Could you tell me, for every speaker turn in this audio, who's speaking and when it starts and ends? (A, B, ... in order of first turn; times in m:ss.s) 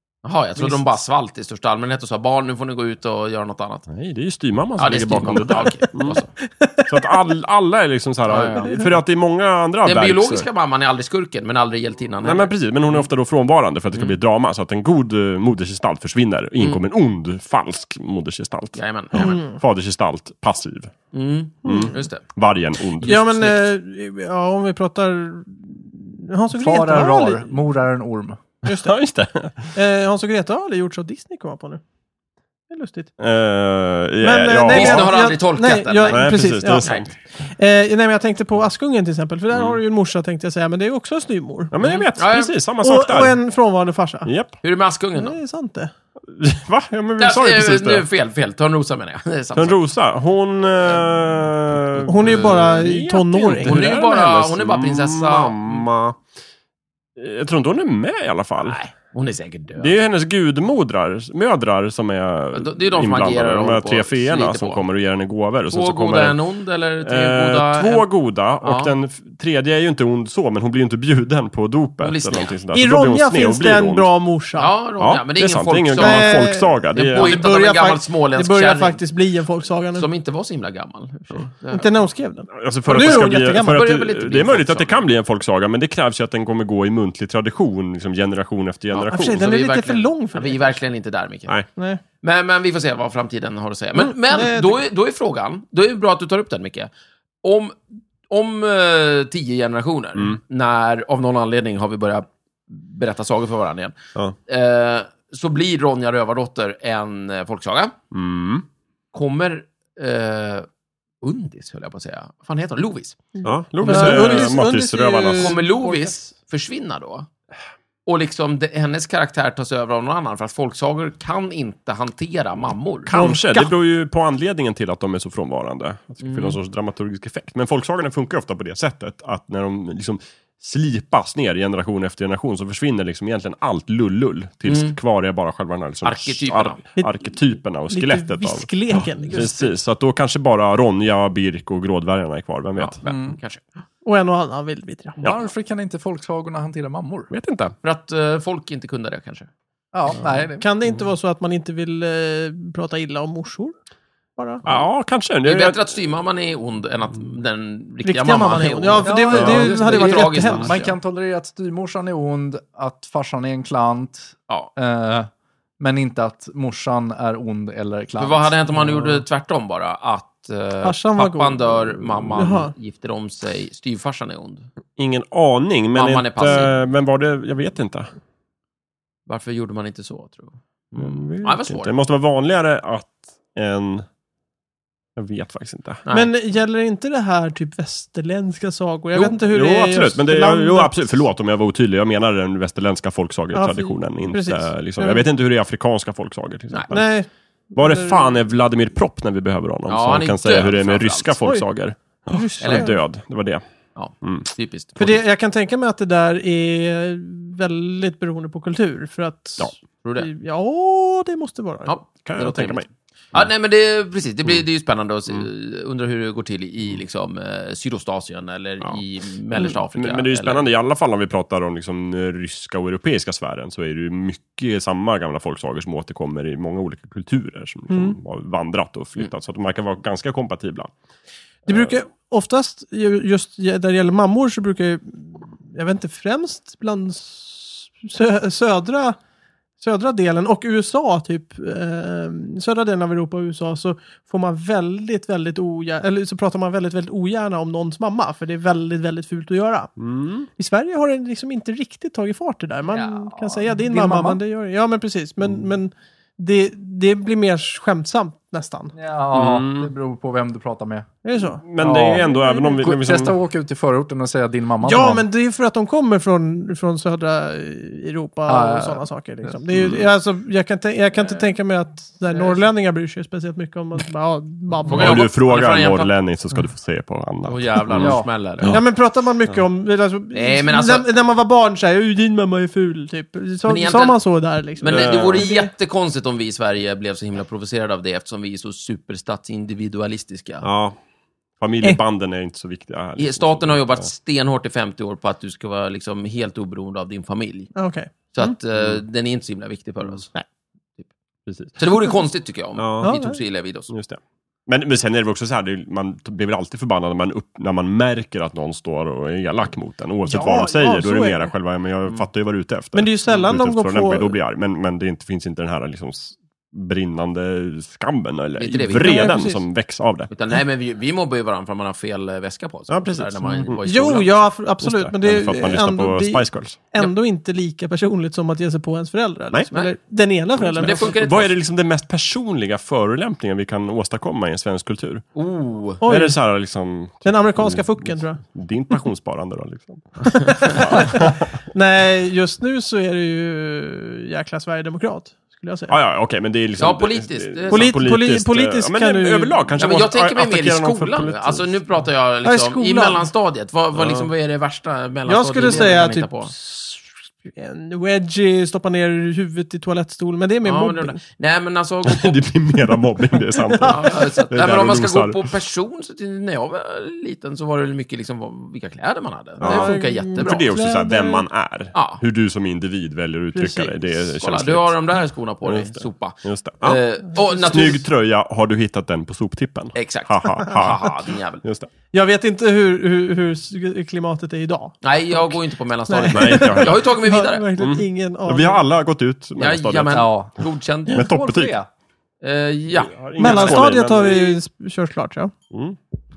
0:00.2-0:03.9 A
0:03.9-0:06.2 B
0:04.8-0:06.3 A
0:06.4-0:06.9 C
0:06.9-0:10.5 B
0:08.3-0:08.8 A
0:08.6-0:08.9 C
0:09.8-0:13.0 A
0:12.2-0:20.9 B
0:18.8-0:19.4 A
0:19.2-0:19.6 C
0:21.1-0:22.2 A
0:21.6-0:22.0 C
0:21.6-0:23.6 B
0:23.0-0:27.5 C
0:26.5-0:28.4 D
0:28.6-0:28.9 C
0:28.6-0:29.7 B
0:29.7-0:31.8 C
0:32.7-0:33.1 C
0:33.2-0:35.1 B
0:34.2-0:36.9 C
0:34.7-0:37.1 A
0:36.1-0:37.1 B
0:37.4-0:42.1 C
0:39.5-0:39.8 B
0:41.7-0:43.4 B
0:42.2-0:42.5 A
0:42.8-0:44.3 C
0:44.2-0:44.5 B
0:44.6-0:45.4 A
0:45.2-0:45.9 C
0:46.3-0:48.0 B
0:47.2-0:49.8 A
0:49.6-0:56.2 B
0:52.1-0:53.9 C
0:52.1-0:52.6 A
0:53.6-0:55.9 A
0:57.2-0:58.8 B
0:58.6-1:00.0 A
0:59.8-1:06.4 B
1:02.5-1:04.8 A
1:05.7-1:08.0 A
1:07.0-1:14.1 B
1:08.6-1:08.9 A
1:12.0-1:12.5 A
1:12.7-1:14.7 C
1:14.6-1:19.0 A
1:15.0-1:17.4 B
1:16.0-1:20.1 C
1:19.9-1:22.0 A
1:21.7-1:23.8 C
1:22.5-1:29.4 B
1:23.0-1:25.0 A
1:28.9-1:31.6 A
1:29.1-1:30.7 C
1:31.8-1:32.0 C
1:32.2-1:36.9 A
1:34.0-1:34.8 C
1:37.4-1:44.0 A
1:44.5-1:47.9 A
1:48.1-1:48.6 B
1:49.1-1:50.6 A
1:51.2-1:54.5 A
1:53.4-1:56.1 C
1:53.4-1:55.6 B
1:55.4-1:57.3 A
1:58.0-2:03.1 A
2:03.1-2:23.0 B
2:03.1-2:03.7 C
2:06.2-2:06.6 A
2:14.7-2:15.0 A
2:16.0-2:16.8 A
2:17.9-2:19.5 C
2:19.3-2:19.7 D
2:22.8-2:23.6 A
2:23.0-2:23.4 D
2:24.0-2:25.2 C
2:25.2-2:27.3 D
2:27.3-2:27.7 B
2:27.8-2:29.5 A
2:29.9-2:30.6 D
2:30.6-2:33.7 C
2:34.4-2:34.6 C
2:34.6-2:35.8 B
2:35.4-2:40.9 A
2:38.0-2:40.9 C
2:39.0-2:49.2 D
2:39.3-2:39.6 B
2:48.2-2:54.7 A
2:50.8-2:51.7 C
2:52.3-2:52.5 B
2:52.3-2:52.7 C
2:55.0-2:58.1 B
2:55.9-2:56.7 A
2:59.3-3:01.9 A
3:01.0-3:04.0 B
3:05.2-3:06.0 B
3:06.0-3:06.3 A
3:06.1-3:11.1 C
3:09.1-3:17.1 B
3:13.5-3:15.3 C
3:16.9-3:18.3 C
3:17.8-3:23.6 B
3:19.9-3:21.4 A
3:22.3-3:22.9 C
3:22.6-3:22.9 A
3:24.0-3:25.0 A
3:24.2-3:24.5 B
3:25.0-3:31.9 C
3:30.0-3:30.3 A
3:31.8-3:40.6 A
3:32.2-3:33.4 B
3:39.9-3:50.9 B
3:47.9-3:48.2 C
3:51.6-3:59.2 C
3:51.7-3:51.9 B
3:59.8-4:09.9 C
4:10.0-4:10.5 B
4:10.6-4:18.9 C
4:12.9-4:14.4 D
4:18.9-4:21.1 D
4:19.3-4:19.9 B
4:21.2-4:21.6 C
4:21.4-4:23.4 B
4:21.8-4:25.2 D
4:22.3-4:22.7 C
4:24.8-4:35.2 C
4:28.5-4:29.6 D
4:29.7-4:30.0 B
4:34.8-4:36.1 A
4:34.9-4:38.8 B
4:37.4-4:38.8 A
4:37.9-4:38.3 D
4:38.7-4:45.7 C
4:40.3-4:41.1 A
4:43.7-4:44.2 A
4:44.8-4:50.7 A
4:44.9-4:45.4 B
4:50.6-4:51.0 B
4:51.6-4:54.1 B
4:53.2-4:57.7 A
4:57.8-4:58.5 C
4:58.3-5:00.3 A
5:01.5-5:01.8 B
5:01.8-5:03.9 A
5:02.8-5:03.1 B
5:03.0-5:03.4 C
5:03.9-5:20.3 B
5:10.3-5:11.5 C
5:12.9-5:14.3 C
5:18.6-5:19.4 A
5:19.0-5:19.6 C
5:20.3-5:24.3 A
5:22.9-5:23.9 B
5:23.8-5:31.1 C
5:24.8-5:26.8 B
5:30.7-5:35.2 B
5:30.7-5:31.5 A
5:35.3-5:36.0 A
5:36.0-5:36.4 C
5:36.0-5:41.6 B
5:37.2-5:38.4 C
5:40.3-5:45.9 C
5:45.9-5:51.7 B
5:46.8-5:48.0 A
5:47.7-5:49.6 C
5:49.8-5:56.5 A
5:52.4-5:53.3 C
5:53.9-5:54.3 B
5:55.3-6:01.2 C
6:00.6-6:02.4 A
6:02.0-6:05.5 B
6:03.5-6:04.3 C
6:03.8-6:10.7 A
6:09.6-6:15.0 B
6:09.6-6:11.4 C
6:11.9-6:12.2 A
6:13.5-6:13.9 C
6:14.3-6:18.0 A
6:15.6-6:17.0 B
6:17.5-6:21.9 B
6:20.0-6:21.6 A
6:22.1-6:28.8 C
6:25.0-6:27.6 A
6:26.3-6:27.1 B
6:27.8-6:30.3 B
6:29.6-6:31.3 A
6:30.1-6:30.5 D
6:31.1-6:31.7 B
6:31.1-6:31.9 D
6:32.4-6:33.8 A
6:32.9-6:34.6 B
6:33.4-6:35.5 C
6:35.7-6:36.0 B